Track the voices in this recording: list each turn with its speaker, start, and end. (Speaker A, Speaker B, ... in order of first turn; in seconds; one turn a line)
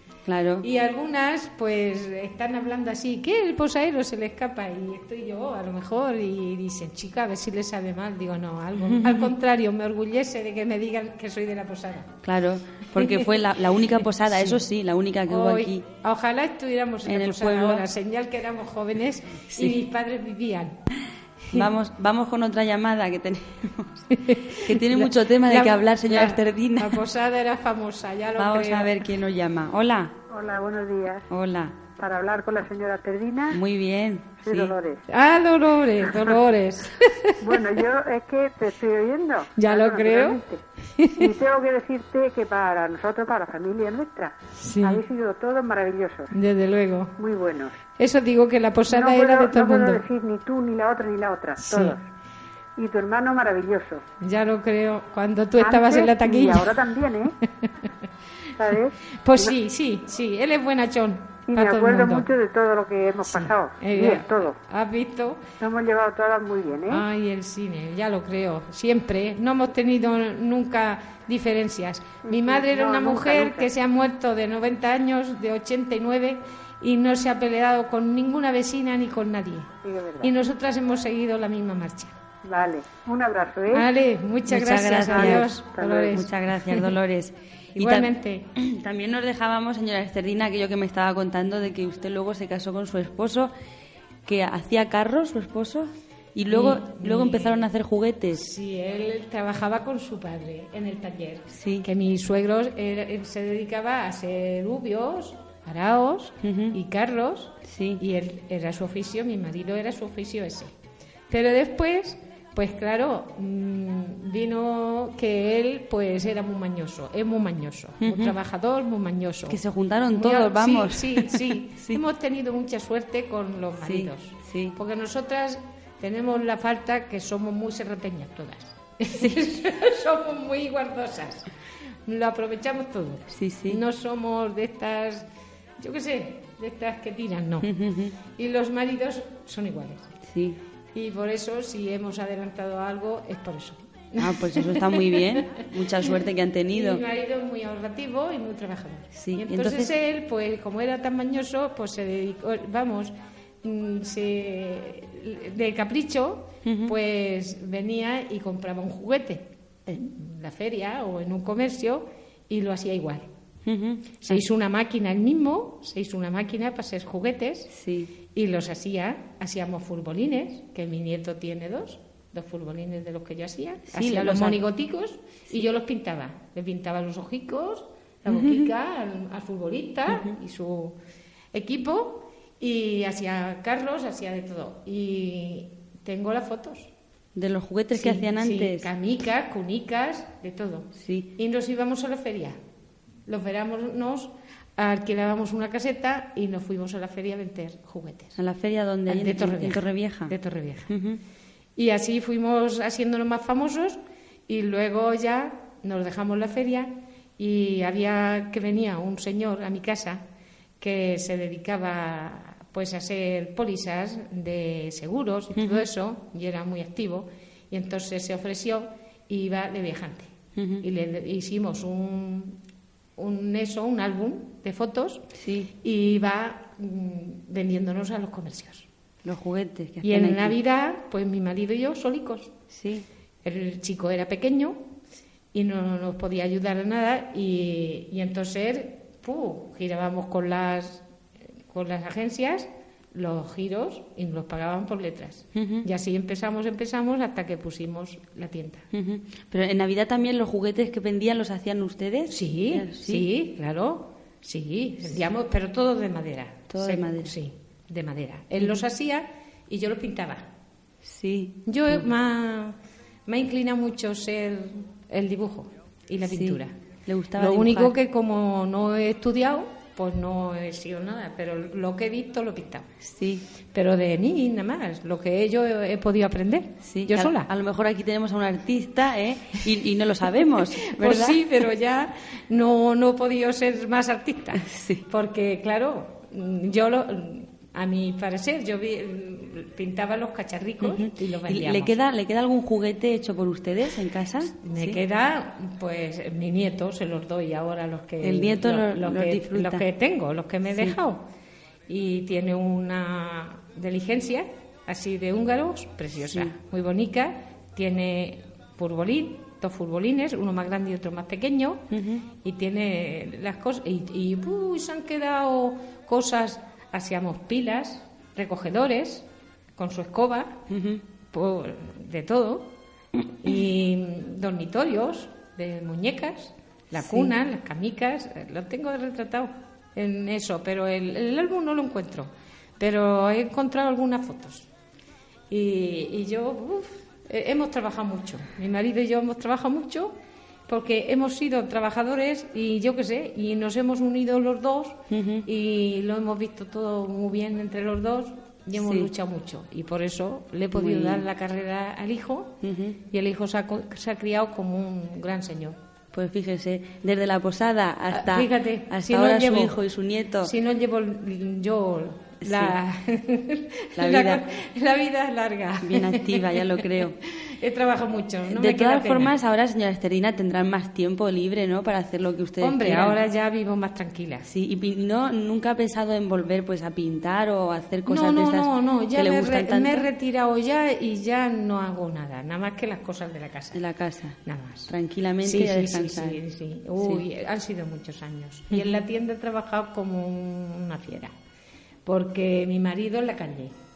Speaker A: 0.2-0.7
Speaker B: 0.6-12.2
Speaker A: 8.8-9.3
Speaker A: 12.2-15.8
Speaker B: 12.9-13.4
Speaker B: 14.3-14.6
Speaker B: 15.3-20.8
Speaker A: 17.1-17.9
Speaker A: 19.5-19.8
Speaker A: 21.5-27.0
Speaker B: 24.1-29.0
Speaker A: 28.4-30.1
Speaker C: 30.3-31.3
Speaker A: 31.3-31.8
Speaker C: 31.9-33.6
Speaker A: 33.5-34.7
Speaker C: 34.4-35.0
Speaker B: 35.1-37.5
Speaker C: 37.4-40.6
Speaker B: 39.5-40.4
Speaker B: 41.0-41.3
Speaker C: 41.1-46.3
Speaker B: 44.6-45.0
Speaker B: 46.3-47.1
Speaker C: 47.2-47.7
Speaker B: 48.0-50.0
Speaker C: 48.9-52.0
Speaker B: 51.6-52.0
Speaker C: 52.8-54.0
Speaker B: 54.2-56.8
Speaker C: 55.6-57.3
Speaker C: 58.6-59.5
Speaker B: 59.2-62.3
Speaker C: 61.5-64.5
Speaker B: 63.2-65.4
Speaker C: 65.6-67.0
Speaker B: 66.9-82.2
Speaker C: 72.2-73.7
Speaker C: 79.8-80.3
Speaker C: 82.4-83.9
Speaker B: 83.7-86.9
Speaker A: 84.5-93.5
Speaker C: 85.1-86.1
Speaker B: 87.8-88.5
Speaker A: 94.2-98.5
Speaker B: 96.5-97.6
Speaker B: 98.3-110.7
Speaker A: 101.5-101.9
Speaker A: 106.4-106.7
Speaker A: 107.6-108.0
Speaker B: 111.3-119.6
Speaker A: 118.0-118.3
Speaker A: 119.5-122.0
Speaker B: 120.1-131.5
Speaker A: 123.8-124.8
Speaker B: 132.1-135.3
Speaker A: 133.3-133.8
Speaker B: 135.8-137.7
Speaker A: 137.6-138.1
Speaker B: 138.3-140.2
Speaker A: 140.2-140.6
Speaker B: 140.9-146.1
Speaker A: 144.2-147.0
Speaker B: 146.7-163.3
Speaker A: 149.2-149.9
Speaker A: 156.6-156.9
Speaker A: 163.6-164.4
Speaker B: 164.2-167.7
Speaker A: 167.7-168.1
Speaker B: 168.3-180.9
Speaker A: 173.9-174.6
Speaker A: 178.3-178.7
Speaker A: 180.1-180.3
Speaker B: 181.5-186.9
Speaker A: 187.3-188.9
Speaker B: 187.9-192.6
Speaker A: 190.9-191.3
Speaker B: 193.3-198.3
Speaker A: 198.3-200.3
Speaker B: 199.1-200.9
Speaker A: 200.9-201.2
Speaker B: 201.8-210.2
Speaker B: 210.8-220.3
Speaker A: 215.5-215.8
Speaker A: 220.6-220.8
Speaker B: 220.8-222.6
Speaker B: 223.2-225.3
Speaker A: 225.3-225.7
Speaker B: 225.8-228.9
Speaker A: 229.2-230.6
Speaker B: 230.0-232.5
Speaker A: 232.7-233.1
Speaker B: 233.4-234.8
Speaker B: 235.5-241.0
Speaker B: 241.7-248.9
Speaker A: 245.5-245.8
Speaker A: 248.9-253.3
Speaker B: 252.3-260.4
Speaker A: 256.7-257.3
Speaker A: 261.0-262.0
Speaker B: 261.6-262.8
Speaker B: 263.3-266.7
Speaker A: 266.2-267.9
Speaker B: 267.4-272.9
Speaker A: 273.0-273.4
Speaker B: 273.7-277.5
Speaker A: 276.8-281.5
Speaker B: 280.8-291.9
Speaker A: 284.6-285.0
Speaker A: 290.8-295.0
Speaker B: 294.6-301.2
Speaker A: 298.2-299.8
Speaker B: 301.9-311.8
Speaker A: 311.9-312.2
Speaker B: 312.4-319.2
Speaker B: 319.8-320.7
Speaker A: 320.7-321.0
Speaker B: 321.3-322.8
Speaker B: 323.4-334.7
Speaker A: 326.9-327.3
Speaker B: 335.5-340.2
Speaker B: 340.7-355.8
Speaker A: 345.1-345.4
Speaker A: 348.8-349.1
Speaker A: 350.7-351.2
Speaker A: 352.6-353.0
Speaker A: 356.1-360.5
Speaker B: 358.1-359.8
Speaker B: 360.4-369.3
Speaker A: 362.4-362.7
Speaker A: 363.9-364.4
Speaker A: 365.8-367.1
Speaker A: 368.5-373.2
Speaker B: 372.6-374.5
Speaker A: 374.5-380.1
Speaker B: 378.1-383.8
Speaker A: 383.7-384.4
Speaker B: 384.4-384.9
Speaker A: 384.9-386.4
Speaker B: 385.4-391.3
Speaker B: 392.1-393.7